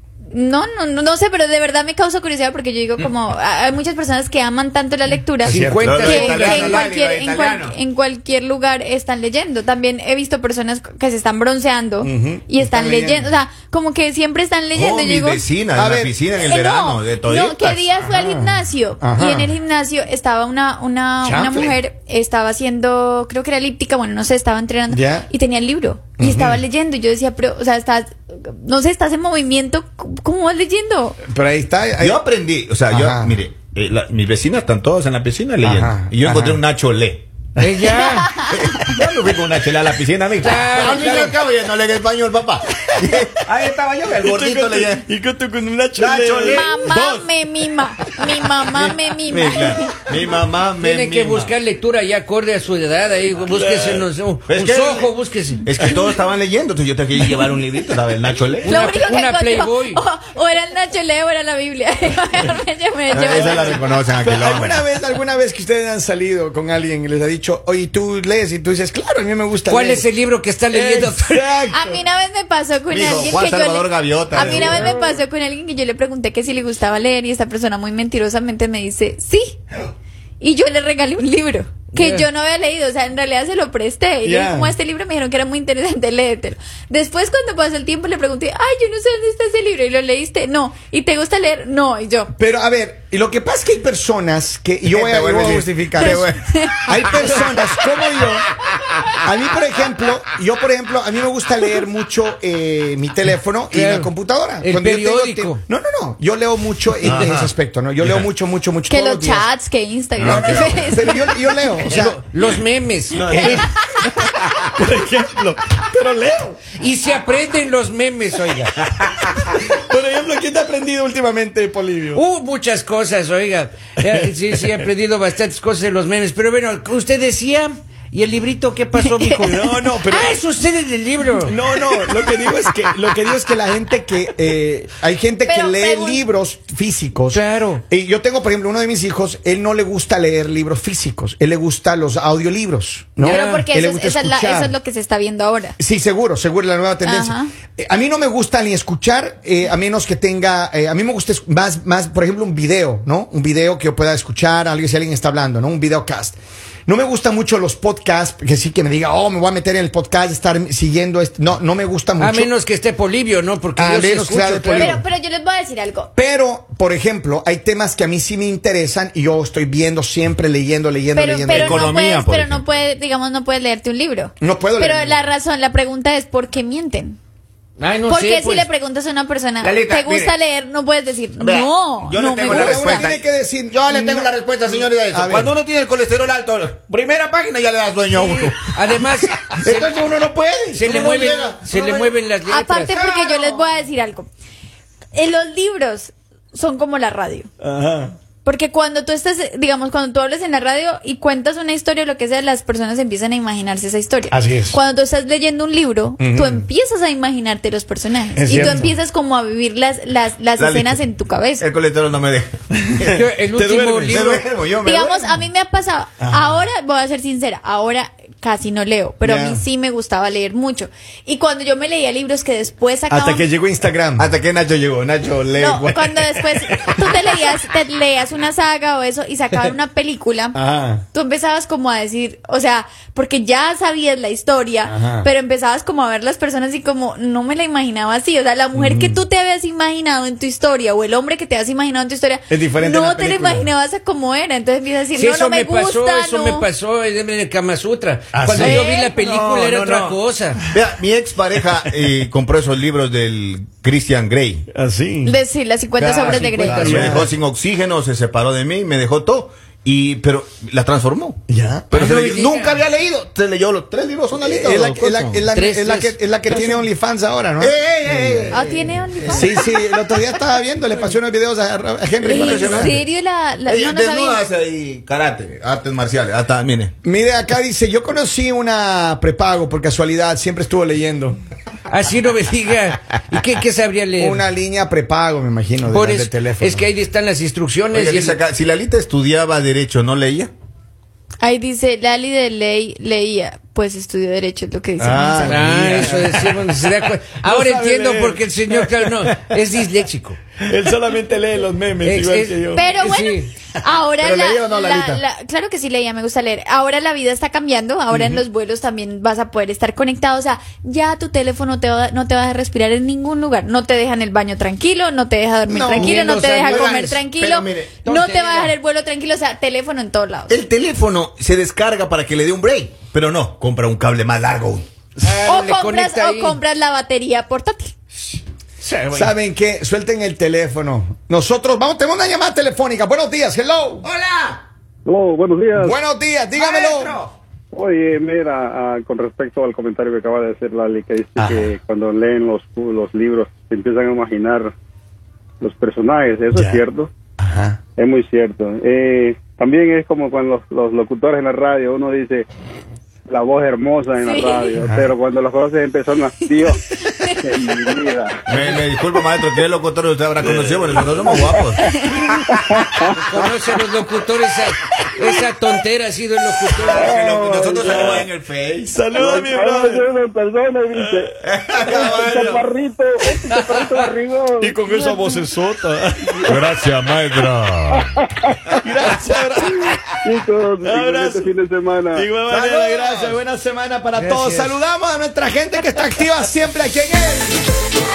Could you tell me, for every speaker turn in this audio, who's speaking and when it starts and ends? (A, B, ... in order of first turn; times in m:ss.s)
0:00.3-0:15.4 A
0:05.4-0:06.9 B
0:05.4-0:06.0 C
0:05.8-0:07.8 D
0:12.0-0:13.3 C
0:14.7-0:17.9 D
0:15.7-0:16.1 C
0:16.4-0:31.2 A
0:18.0-0:19.5 C
0:21.2-0:21.7 C
0:24.9-0:25.3 C
0:26.2-0:26.6 C
0:31.2-0:32.2 C
0:32.0-0:37.6 D
0:32.9-0:33.4 C
0:35.6-0:36.6 C
0:37.6-0:38.4 B
0:38.0-0:38.9 A
0:38.5-0:45.0 D
0:40.4-0:41.4 B
0:44.1-0:47.3 C
0:46.0-0:46.8 D
0:46.4-0:50.1 A
0:48.8-0:51.5 D
0:50.8-0:55.6 B
0:53.5-0:54.1 C
0:54.5-0:55.1 D
0:55.6-0:58.9 D
0:58.6-1:04.0 A
0:58.6-1:00.0 B
1:03.1-1:04.8 D
1:03.2-1:10.1 C
1:09.6-1:11.5 B
1:10.7-1:12.0 C
1:11.6-1:19.6 A
1:12.9-1:14.9 D
1:14.5-1:15.1 B
1:20.4-1:32.3 A
1:21.9-1:22.2 B
1:24.2-1:24.7 C
1:32.3-1:36.3 C
1:34.8-1:37.6 D
1:35.9-1:37.3 A
1:36.8-1:38.4 C
1:39.2-1:49.5 C
1:43.7-1:45.6 B
1:47.0-1:48.3 D
1:48.9-1:51.6 A
1:50.2-1:50.8 D
1:50.2-1:52.2 C
1:51.9-1:53.7 B
1:53.2-1:53.6 D
1:53.2-1:53.6 C
1:53.6-1:54.1 A
1:54.7-1:56.6 C
1:56.7-1:58.7 B
1:59.2-2:02.2 C
2:02.1-2:11.6 B
2:09.0-2:09.4 A
2:09.4-2:10.3 C
2:11.4-2:24.8 C
2:15.4-2:16.2 A
2:17.3-2:17.8 B
2:23.2-2:23.7 B
2:23.2-2:25.8 A
2:25.8-2:42.5 C
2:27.0-2:27.6 A
2:42.2-2:45.0 B
2:43.8-2:45.0 C
2:44.8-2:46.1 A
2:46.2-2:51.9 C
2:51.1-2:57.2 A
2:51.5-2:52.7 D
2:54.4-2:55.2 C
2:57.8-2:58.7 B
2:58.1-3:03.1 A
2:59.6-3:00.3 D
3:01.4-3:12.1 D
3:02.4-3:05.5 C
3:08.1-3:09.4 B
3:10.7-3:12.9 B
3:12.4-3:14.3 A
3:12.9-3:13.6 D
3:15.1-3:17.5 A
3:17.6-3:18.1 C
3:18.4-3:31.6 A
3:24.3-3:24.8 C
3:26.2-3:26.6 C
3:28.4-3:28.9 C
3:30.6-3:31.0 D
3:31.6-3:33.2 D
3:33.1-3:34.4 B
3:33.5-3:34.3 C
3:34.0-3:35.4 D
3:34.8-3:43.4 A
3:36.2-3:36.6 C
3:39.2-3:39.6 C
3:43.1-3:44.3 C
3:44.2-3:46.9 D
3:45.6-3:50.6 A
3:50.5-3:51.0 C
3:51.1-4:06.7 A
3:54.8-3:55.3 C
3:58.7-3:59.2 C
4:02.5-4:03.7 C
4:05.1-4:10.6 B
4:08.3-4:14.7 D
4:08.5-4:09.1 A
4:14.7-4:15.4 C
4:15.2-4:16.8 A
4:16.0-4:21.4 D
4:16.3-4:17.3 B
4:16.4-4:17.3 C
4:21.5-4:21.9 C
4:21.9-4:25.4 D
4:21.9-4:22.8 B
4:24.4-4:28.6 C
4:25.5-4:26.8 B
4:27.6-4:29.6 D
4:28.5-4:30.0 A
4:29.2-4:33.0 C
4:32.2-4:33.0 D
4:32.2-4:34.4 A
4:33.6-4:36.9 D
4:37.0-4:41.4 C
4:41.9-4:44.4 B
4:44.2-4:46.9 C
4:45.8-4:48.4 B
4:47.9-4:50.5 D
4:51.4-4:55.6 A
4:55.0-4:56.4 D
4:55.3-5:00.4 B
4:57.4-4:59.1 C
5:00.6-5:02.9 C
5:02.0-5:03.5 B
5:02.7-5:20.5 A
5:04.2-5:05.2 D
5:08.1-5:08.4 C
5:15.7-5:16.7 C
5:15.9-5:17.2 B
5:16.6-5:18.0 D
5:18.0-5:18.7 B
5:20.5-5:24.9 D
5:25.2-5:26.6 B
5:25.4-5:27.9 A
5:29.1-5:34.0 C
5:34.0-5:34.6 D
5:35.0-5:36.0 E
5:35.8-5:37.2 C
5:36.5-5:37.3 D
5:37.7-5:44.7 E
5:41.4-5:41.7 C
5:45.6-5:47.1 E
5:46.5-5:46.8 C
5:47.4-5:47.8 C
5:48.0-5:52.4 E
5:53.3-5:56.8 E
5:54.2-5:54.8 A
5:56.4-5:57.7 A
5:57.4-5:58.4 E
5:58.5-6:01.8 D
6:01.6-6:02.3 A
6:02.5-6:03.2 E
6:03.1-6:07.1 B
6:06.7-6:09.0 D
6:06.9-6:08.3 E
6:08.8-6:10.0 C
6:09.2-6:11.3 E
6:11.4-6:12.6 D
6:11.8-6:15.4 E
6:14.6-6:16.8 C
6:16.4-6:18.1 D
6:18.0-6:18.5 E
6:18.8-6:19.9 C
6:20.2-6:22.3 E
6:20.8-6:21.5 C
6:22.1-6:27.6 C
6:22.5-6:23.4 D
6:24.2-6:24.8 B